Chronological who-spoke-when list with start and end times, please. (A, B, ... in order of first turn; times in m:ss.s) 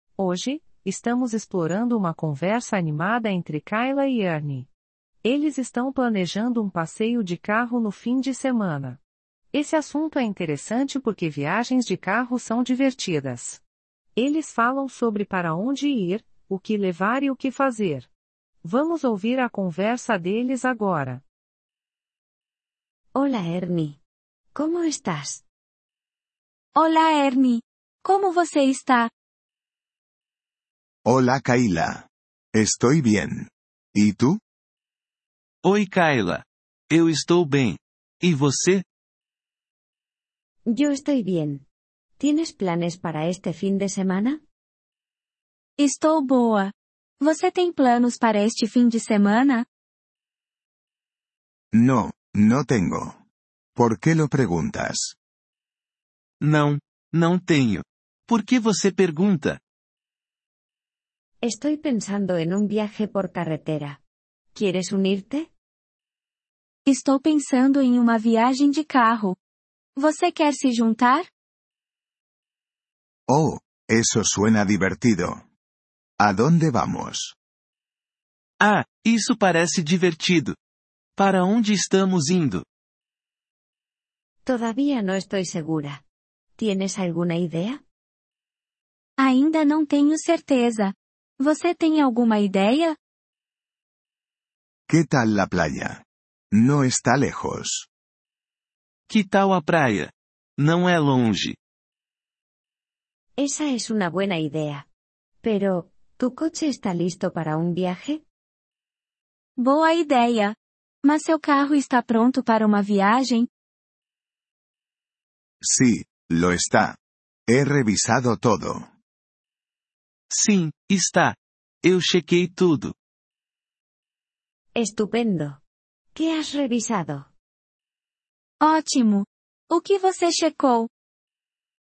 0:00.2-0:04.7 A
0:05.2-0:09.0 A
0:09.5-0:13.6 A
0:14.2-0:18.1 A
0:18.6-0:21.2 A
0:23.1-0:24.0 B
0:24.5-0:25.4 B
0:26.8-0:29.1 C
0:31.0-0:34.4 D
0:35.6-0:38.8 E
0:40.7-0:41.6 B
0:42.2-0:44.4 B
0:45.8-0:49.6 C
0:51.7-0:53.2 D
0:53.8-0:55.2 D
0:56.4-0:59.6 E
1:01.4-1:04.0 B
1:04.5-1:05.5 B
1:06.8-1:09.4 C
1:10.0-1:11.3 C
1:13.3-1:15.4 D
1:16.2-1:17.3 D
1:18.6-1:20.6 E
1:21.2-1:22.6 E
1:24.4-1:26.0 B
1:26.6-1:27.8 B
1:29.2-1:33.0 C
1:34.9-1:37.9 D
1:39.1-1:41.6 E
1:43.4-1:44.8 B
1:45.4-1:48.2 B
1:49.6-1:53.5 C
1:55.6-1:58.9 D
2:00.3-2:02.9 E
2:04.7-2:05.6 B
2:06.1-2:07.3 B
2:08.6-2:10.9 C